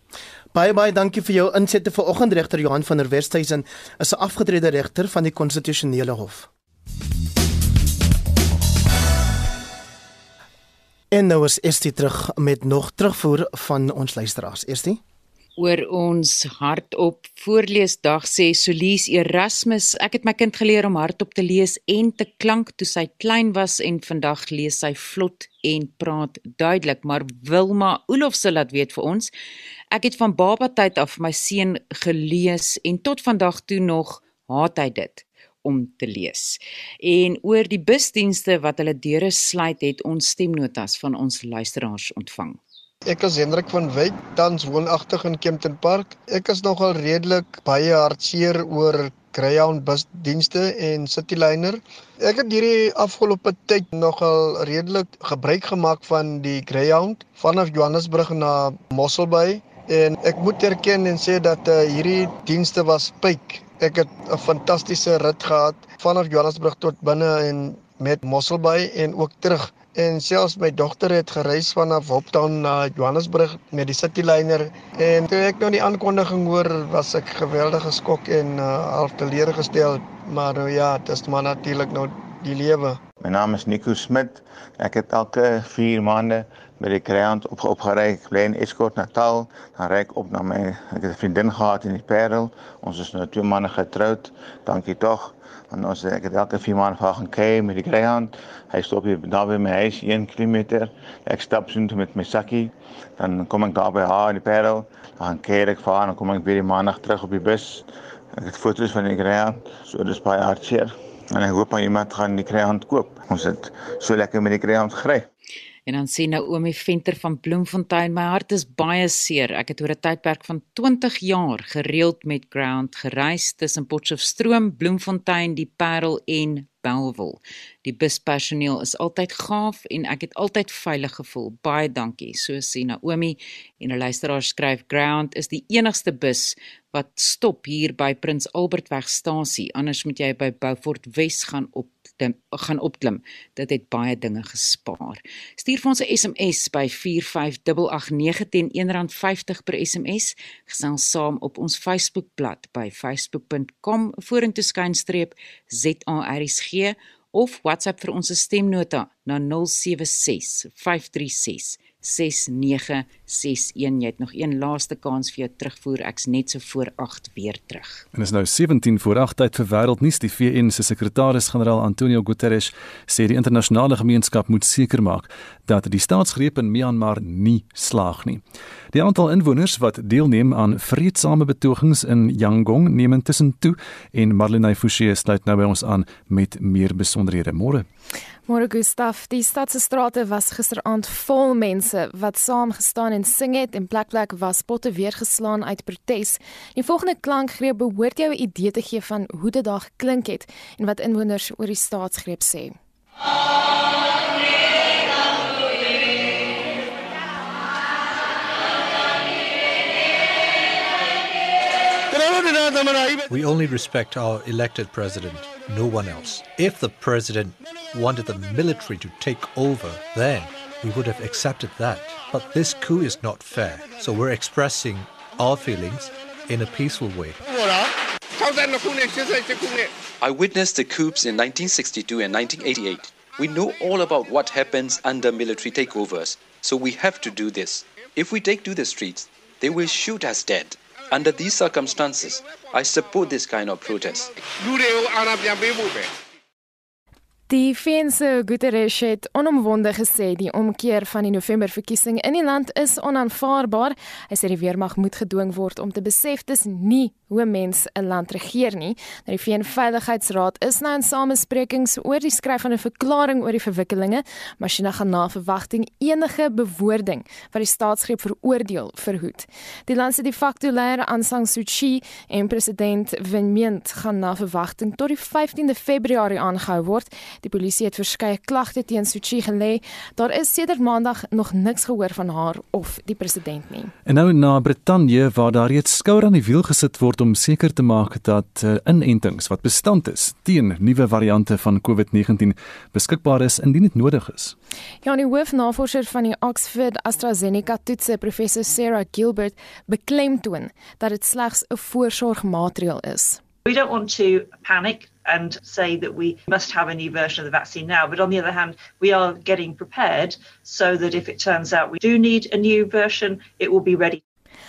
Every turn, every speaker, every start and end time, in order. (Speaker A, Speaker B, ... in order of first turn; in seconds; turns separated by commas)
Speaker A: 0.5-6.5, Speaker A: 11.1-15.0, Speaker B: 15.6-29.3, Speaker B: 29.9-42.6, Speaker C: 43.1-83.0, Speaker D: 83.2-115.2, Speaker B: 115.9-168.0, Speaker E: 168.1-187.8, Speaker F: 188.5-202.8, Speaker G: 213.3-227.4, Speaker H: 230.2-244.3, Speaker F: 247.5-283.9, Speaker E: 284.1-294.5, Speaker F: 295.0-303.4, Speaker I: 303.6-314.2